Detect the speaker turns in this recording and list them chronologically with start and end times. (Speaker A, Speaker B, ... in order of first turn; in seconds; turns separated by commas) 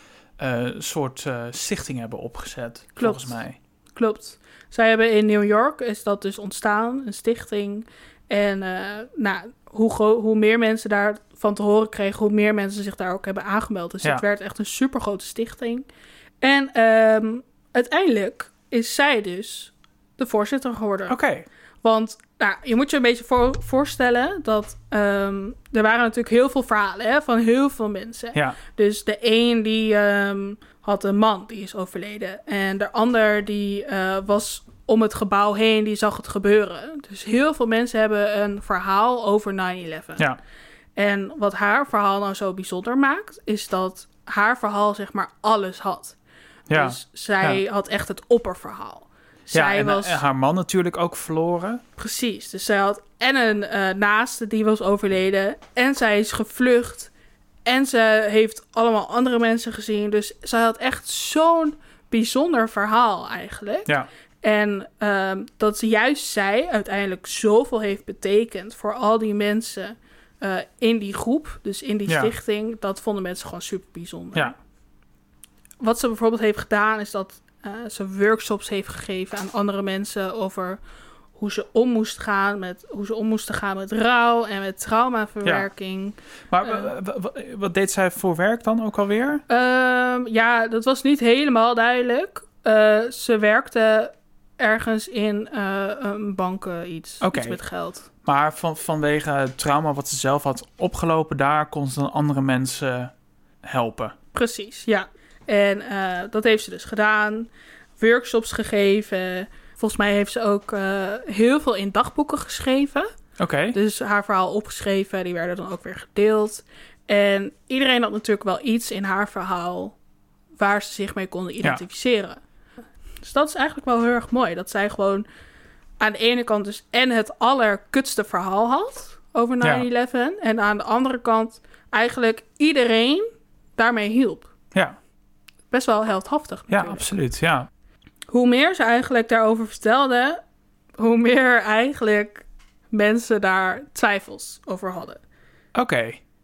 Speaker A: 0.4-3.6, Speaker B: 3.0-3.4, Speaker B: 3.9-15.8, Speaker B: 16.4-21.2, Speaker A: 21.1-21.4, Speaker B: 21.8-40.3, Speaker B: 41.0-46.2, Speaker A: 46.7-47.6, Speaker B: 46.7-50.2, Speaker A: 49.5-51.8, Speaker B: 52.0-57.1, Speaker B: 57.6-63.9, Speaker B: 64.4-74.5, Speaker A: 72.1-72.3, Speaker B: 75.8-80.8, Speaker B: 81.3-86.9, Speaker A: 86.5-89.4, Speaker B: 89.5-98.0, Speaker A: 97.2-97.6, Speaker A: 98.2-103.1, Speaker A: 103.6-104.1, Speaker B: 104.3-113.1, Speaker A: 113.4-113.8, Speaker B: 113.7-120.0, Speaker B: 120.6-122.4, Speaker B: 123.2-125.2, Speaker B: 126.0-133.2, Speaker A: 129.6-129.8, Speaker B: 133.8-134.5, Speaker B: 135.7-137.1, Speaker A: 136.7-137.7, Speaker B: 138.3-140.4, Speaker B: 141.0-145.2, Speaker A: 145.7-146.2